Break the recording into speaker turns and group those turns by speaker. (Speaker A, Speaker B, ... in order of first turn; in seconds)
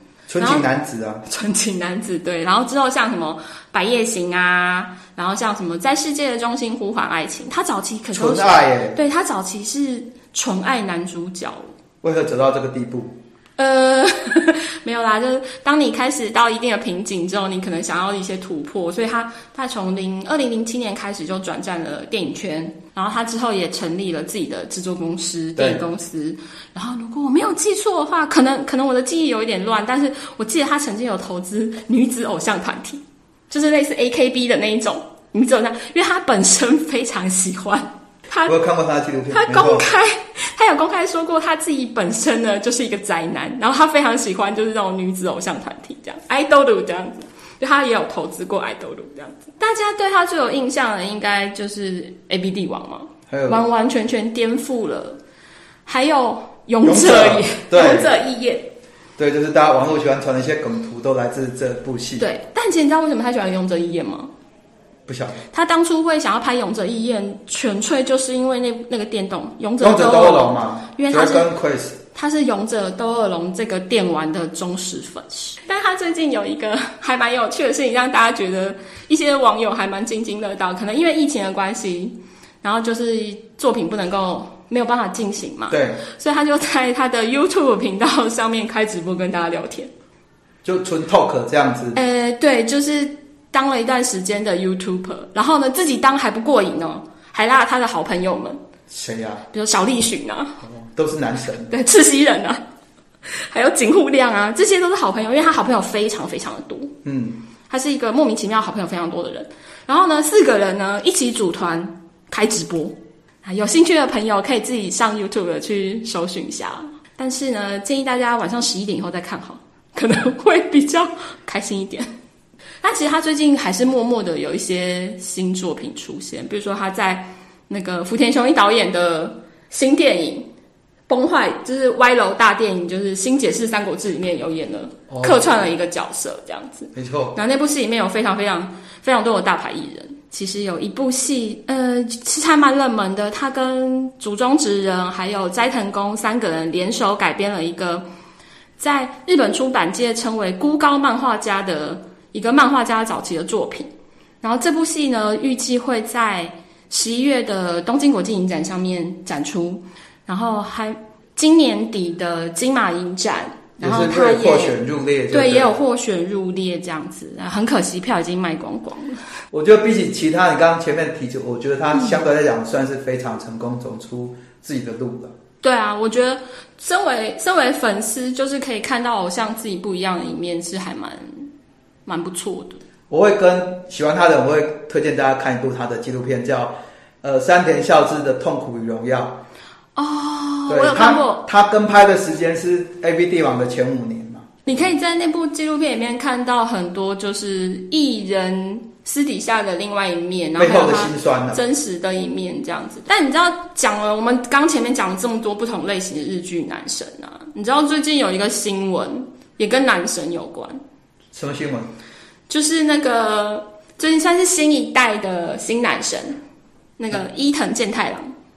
Speaker A: 0.3-1.2, 8.1-9.0, 12.0-13.2, 25.6-25.8, 38.5-39.9, 53.3-53.6, 56.8-58.1, 59.2-62.3, 65.1-65.4, 69.8-72.0, 85.7-86.0, 90.6-92.0, 98.9-99.4, 100.6-101.7, 107.0-107.4, 135.1-135.6, 136.9-137.3, 163.8-165.8, 169.5-175.3, 183.1-189.4, 190.7-194.8, 200.6-201.6, 211.3-211.9
Speaker B: 0.4-0.7, 1.3-11.7, 13.6-38.5, 39.3-55.2, 55.9-58.7, 62.2-64.3, 65.5-71.5, 72.1-89.9, 91.9-98.6, 99.5-100.6, 101.7-102.6, 103.3-107.0, 107.7-122.1, 122.8-130.5, 131.1-148.0, 148.8-153.9, 154.4-164.8, 165.3-169.2, 175.6-181.5, 182.1-182.8, 189.9-191.4, 194.6-210.8, 212.5-216.4, 217.0-218.3